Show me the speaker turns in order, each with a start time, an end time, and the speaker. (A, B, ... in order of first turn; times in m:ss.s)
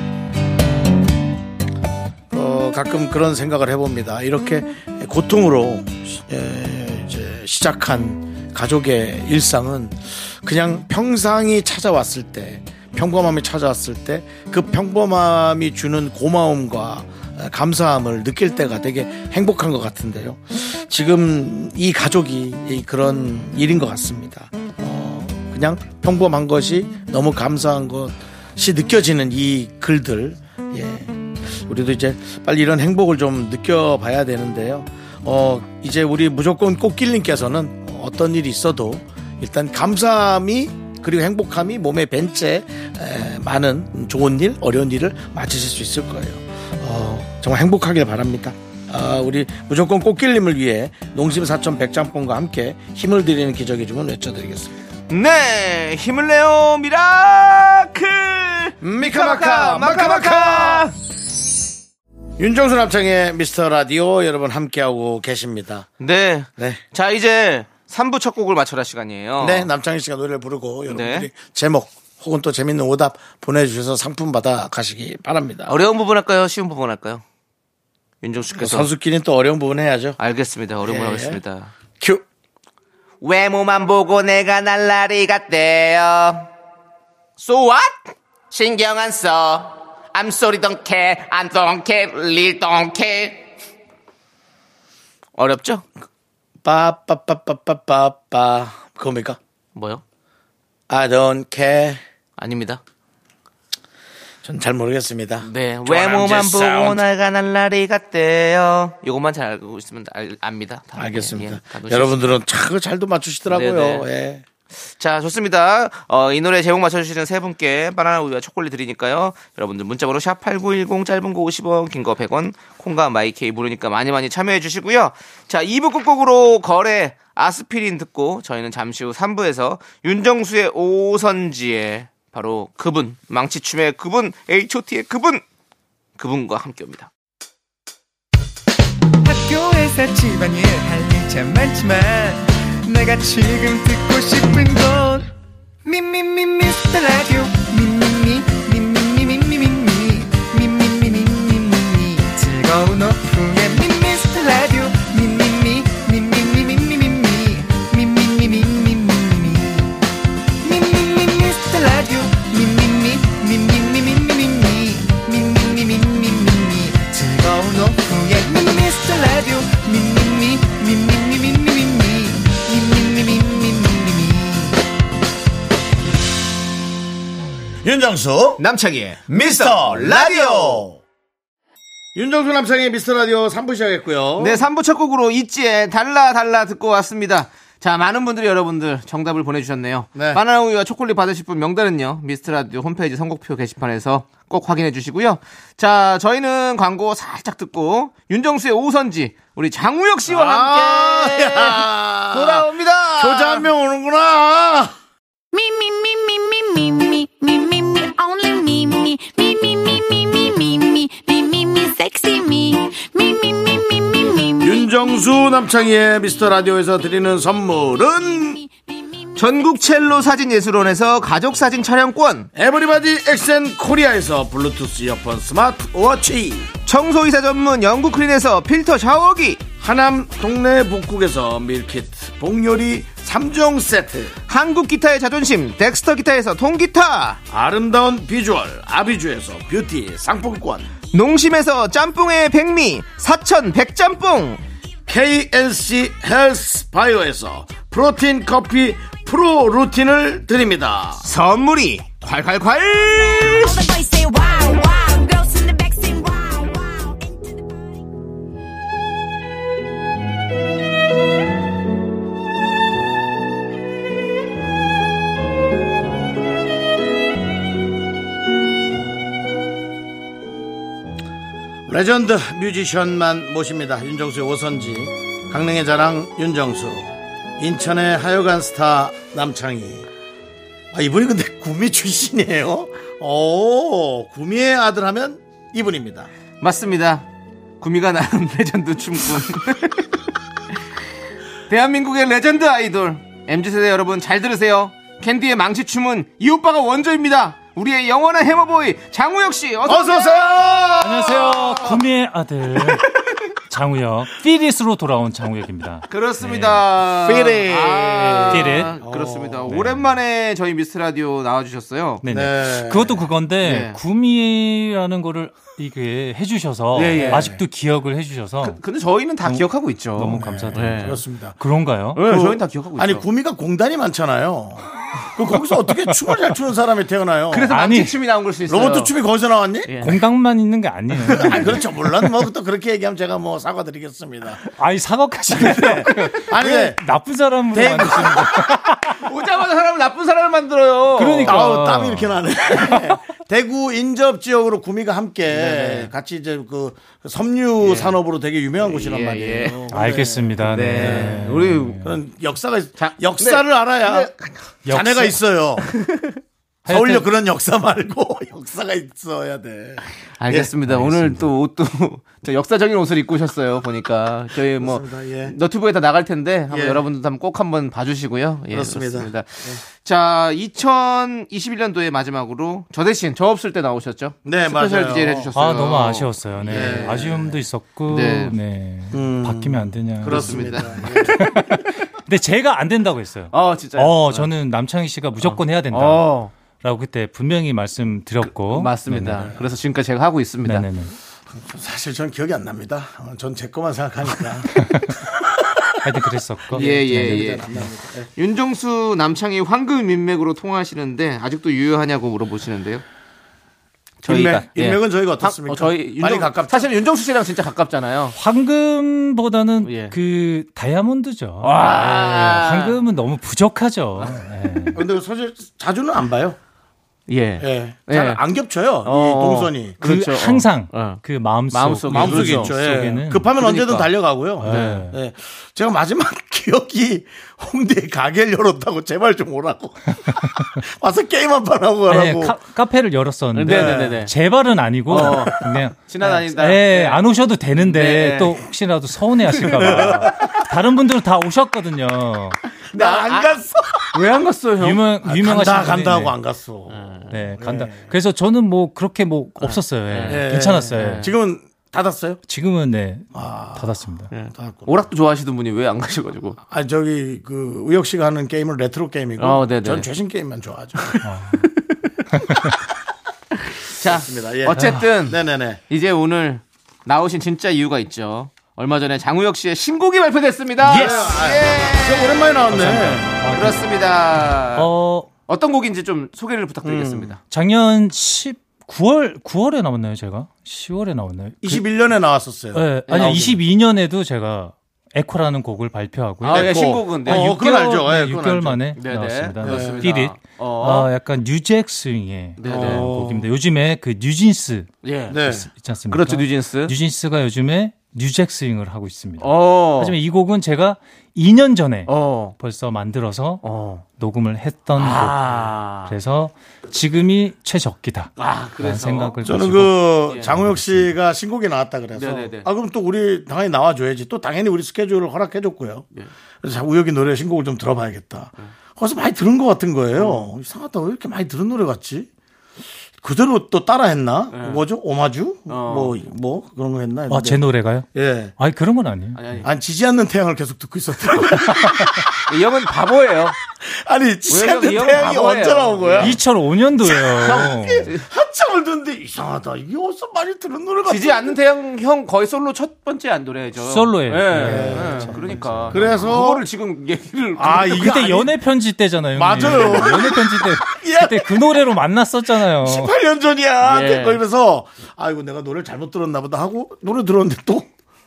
0:02.3-0:54.8 A
0:55.1-1:00.9 B
0:58.8-1:00.9 A
1:02.4-1:05.9 A
1:06.0-1:09.7 B
1:06.6-1:06.8 A
1:09.4-1:15.7 A
1:10.9-1:11.3 B
1:15.7-1:17.2 B
1:18.2-1:18.9 B
1:18.6-1:20.2 A
1:20.2-1:21.7 B
1:20.8-1:21.4 A
1:23.2-1:26.5 B
1:27.4-1:33.4 B
1:35.4-1:35.8 B
1:36.6-1:39.4 A
1:39.8-1:40.0 B
1:40.9-1:42.0 A
1:42.4-1:42.8 B
1:44.4-1:47.1 A
1:45.4-1:52.4 B
1:51.0-1:54.4 A
1:53.5-1:54.1 B
1:54.8-2:15.4 B
2:16.2-2:17.1 B
2:19.2-2:25.3 C
2:25.8-2:40.0 C
2:40.6-2:54.8 C
2:57.8-2:58.6 A
2:58.6-3:00.9 B
2:59.3-3:01.0 A
3:02.2-3:04.6 A
3:04.4-3:23.7 B
3:10.2-3:10.4 A
3:20.3-3:25.0 A
3:34.6-3:38.6 A
3:39.4-3:42.5 B
3:42.6-3:46.7 A
3:46.9-3:49.6 B
3:49.8-3:54.4 A
3:54.5-3:57.4 B
3:57.5-4:00.9 A
4:01.1-4:04.6 B
4:05.1-4:11.2 A
4:11.2-4:13.9 B
4:13.9-4:16.9 D
4:31.9-4:40.1 A
4:40.9-4:46.3 A
4:46.6-4:47.3 B
4:47.8-4:50.1 B
4:51.7-5:00.5 B
4:59.8-5:02.0 A
5:01.0-5:03.2 E
5:03.7-5:06.9 E
5:06.1-5:12.2 B
5:07.2-5:09.7 A
5:08.5-5:09.0 E
5:09.7-5:10.2 E
5:12.2-5:18.8 E
5:12.3-5:13.2 A
5:13.6-5:14.0 B
5:16.9-5:17.5 B
5:17.1-5:17.6 A
5:18.6-5:21.2 B
5:19.4-5:22.2 E
5:20.3-5:21.6 A
5:22.2-5:23.2 B
5:22.2-5:27.7 A
5:27.5-5:29.1 B
5:27.7-5:28.2 E
5:28.7-5:30.0 A
5:29.9-5:30.2 B
5:30.0-5:32.3 E
5:31.3-5:31.8 B
5:31.3-5:34.6 A
5:34.7-5:39.2 E
5:35.5-5:37.0 A
5:37.7-5:38.8 A
5:39.1-5:41.6 B
5:41.2-5:43.2 E
5:41.4-5:51.4 A
5:45.5-5:46.1 B
5:47.8-5:48.2 B
5:48.8-5:50.0 B
5:49.9-5:52.2 E
5:50.6-5:52.0 B
5:52.0-5:54.3 A
5:53.0-5:54.6 B
5:54.9-5:55.4 E
5:54.9-5:55.9 A
5:55.9-5:56.4 B
5:56.9-5:57.3 E
5:56.9-6:00.7 A
6:00.4-6:17.4 B
6:00.9-6:01.5 E
6:04.8-6:05.6 A
6:06.7-6:07.0 A
6:08.7-6:09.8 A
6:14.4-6:15.5 A
6:15.6-6:29.6 E
6:16.7-6:17.6 A
6:18.1-6:18.6 B
6:19.1-6:21.7 A
6:20.2-6:21.5 B
6:23.5-6:24.5 B
6:25.4-6:26.5 B
6:28.4-6:30.9 B
6:30.6-6:31.2 E
6:31.5-6:34.8 A
6:34.7-6:35.2 E
6:35.4-6:35.9 A
6:36.0-6:37.9 E
6:36.7-6:38.3 A
6:36.7-6:37.7 B
6:38.4-6:43.0 B
6:44.2-6:48.4 B
6:44.2-6:46.9 A
6:48.4-6:55.0 E
6:49.8-6:50.2 B
6:51.6-6:53.0 B
6:54.9-6:56.6 A
6:57.3-6:58.4 B
6:57.6-7:00.0 A
6:59.0-7:02.8 B
7:00.0-7:03.5 E
7:02.1-7:12.6 A
7:03.6-7:04.1 B
7:04.6-7:05.2 E
7:04.6-7:05.1 B
7:12.1-7:22.6 E
7:13.5-7:14.3 B
7:13.7-7:14.2 A
7:15.1-7:17.2 B
7:17.8-7:18.6 B
7:19.5-7:20.3 B
7:19.8-7:20.5 A
7:22.9-7:23.5 B
7:22.9-7:24.1 A
7:24.1-7:25.0 B
7:24.8-7:26.3 E
7:25.2-7:27.0 A
7:26.9-7:27.3 B
7:27.3-7:31.3 E
7:27.6-7:28.1 A
7:29.6-7:31.3 B
7:30.3-7:32.4 A
7:32.5-7:34.3 E
7:33.4-7:33.9 A
7:34.3-7:36.6 B
7:34.5-7:34.9 A
7:36.6-7:41.2 A
7:39.4-7:40.1 B
7:41.2-7:41.7 E
7:41.6-7:42.0 B
7:42.3-7:42.7 E
7:43.9-7:52.6 B
7:44.0-7:45.8 A
7:50.8-7:51.3 E
7:50.9-7:53.4 A
7:52.7-7:53.9 E
7:53.5-7:54.9 B
7:54.8-7:55.3 E
7:55.5-7:57.4 B
7:56.8-7:57.3 A
7:57.5-8:01.8 E
8:01.6-8:03.6 A
8:02.7-8:14.9 E
8:03.1-8:03.5 B
8:06.4-8:07.5 B
8:06.4-8:08.8 A
8:09.0-8:11.1 B
8:09.6-8:10.1 A
8:12.6-8:13.1 B
8:12.6-8:13.5 A
8:15.0-8:15.4 B
8:15.3-8:15.7 A
8:15.5-8:31.1 E
8:16.1-8:17.0 B
8:19.4-8:20.2 B
8:22.1-8:22.6 B
8:23.6-8:24.0 B
8:25.0-8:26.1 B
8:28.4-8:29.4 B
8:29.4-8:36.1 A
8:30.3-8:30.6 B
8:32.2-8:32.7 B
8:36.6-8:42.3 A
8:40.2-8:40.5 B
8:43.2-8:47.6 A
8:44.5-8:44.8 B
8:45.7-8:46.2 B
8:47.3-8:49.6 E
8:48.1-8:48.5 A
8:49.4-8:49.7 B
8:49.6-8:52.3 A
8:52.5-8:53.6 B
8:53.8-8:56.4 A
8:54.5-8:56.4 B
8:56.2-8:58.1 E
8:57.0-9:01.6 A
9:01.0-9:08.2 B
9:03.8-9:06.2 E
9:04.5-9:06.6 A
9:07.6-9:08.5 A
9:07.9-9:13.1 E
9:09.4-9:11.9 A
9:09.6-9:10.0 B
9:12.7-9:17.9 A
9:13.8-9:14.4 B